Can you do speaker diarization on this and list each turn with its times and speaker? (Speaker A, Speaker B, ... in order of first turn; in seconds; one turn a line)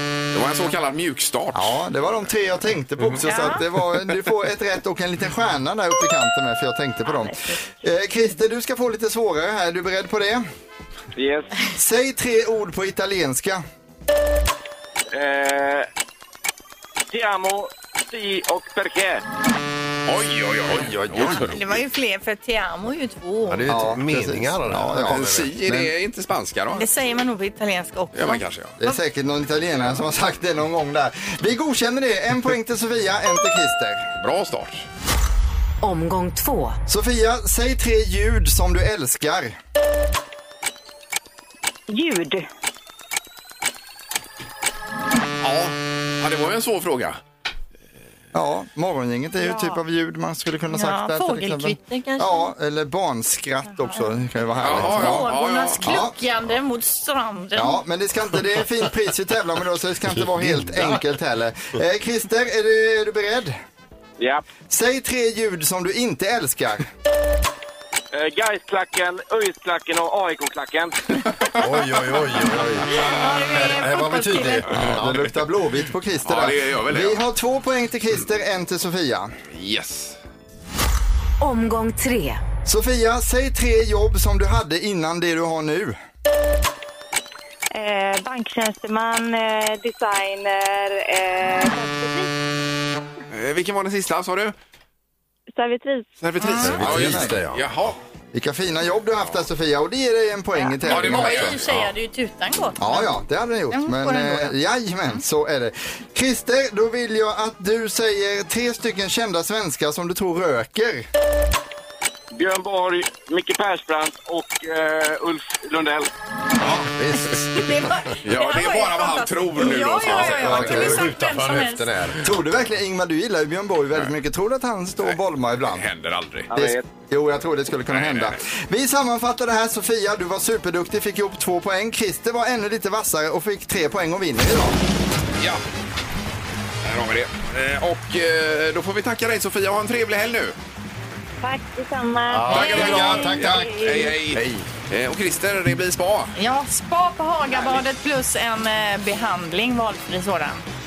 Speaker A: 0.3-1.8
Speaker B: 1.5-10.4
Speaker C: 3.2-3.6
Speaker D: 7.0-7.6
Speaker E: 11.1-11.6
Speaker B: 11.7-13.6
Speaker E: 15.1-15.9
Speaker E: 17.1-19.2
Speaker A: 20.1-21.6
Speaker F: 20.8-21.5
Speaker C: 21.3-23.7
Speaker F: 23.5-25.5
Speaker B: 23.7-25.9
Speaker A: 25.1-26.9
Speaker C: 26.7-28.4
Speaker A: 28.1-28.8
Speaker B: 28.8-34.1
Speaker A: 34.2-34.9
Speaker G: 35.8-36.8
Speaker B: 36.9-39.5
Speaker D: 41.9-42.5
Speaker A: 45.4-47.2
Speaker B: 48.3-55.3
Speaker C: 49.4-49.8
Speaker C: 50.7-52.5
Speaker A: 54.6-56.0
Speaker C: 54.8-57.8
Speaker B: 55.8-56.1
Speaker B: 57.5-63.6
Speaker F: 60.1-61.0
Speaker E: 64.2-64.4
Speaker B: 64.7-66.9
Speaker E: 68.1-71.0
Speaker F: 71.6-72.9
Speaker C: 72.9-74.7
Speaker A: 72.9-73.2
Speaker F: 73.5-75.3
Speaker A: 74.7-75.3
Speaker B: 74.8-79.3
Speaker A: 76.2-77.2
Speaker A: 79.5-80.2
Speaker G: 81.4-82.4
Speaker B: 82.7-86.0
Speaker D: 87.7-92.3
Speaker A: 93.3-94.5
Speaker D: 95.5-96.1
Speaker A: 96.2-98.0
Speaker C: 96.4-96.8
Speaker F: 96.6-97.9
Speaker B: 96.8-97.4
Speaker B: 98.3-101.6
Speaker C: 100.5-103.1
Speaker A: 100.8-101.6
Speaker B: 102.8-111.1
Speaker C: 103.7-104.5
Speaker E: 112.4-116.1
Speaker F: 116.9-117.6
Speaker C: 117.5-121.9
Speaker A: 118.2-120.9
Speaker F: 120.0-122.4
Speaker B: 120.3-121.1
Speaker B: 122.2-125.9
Speaker A: 125.0-126.5
Speaker E: 126.5-126.8
Speaker B: 126.5-134.8
Speaker A: 127.9-128.4
Speaker A: 136.8-140.6
Speaker D: 141.4-144.2
Speaker F: 142.3-143.8
Speaker A: 142.5-146.3
Speaker C: 142.5-143.4
Speaker F: 144.3-144.7
Speaker C: 146.4-150.6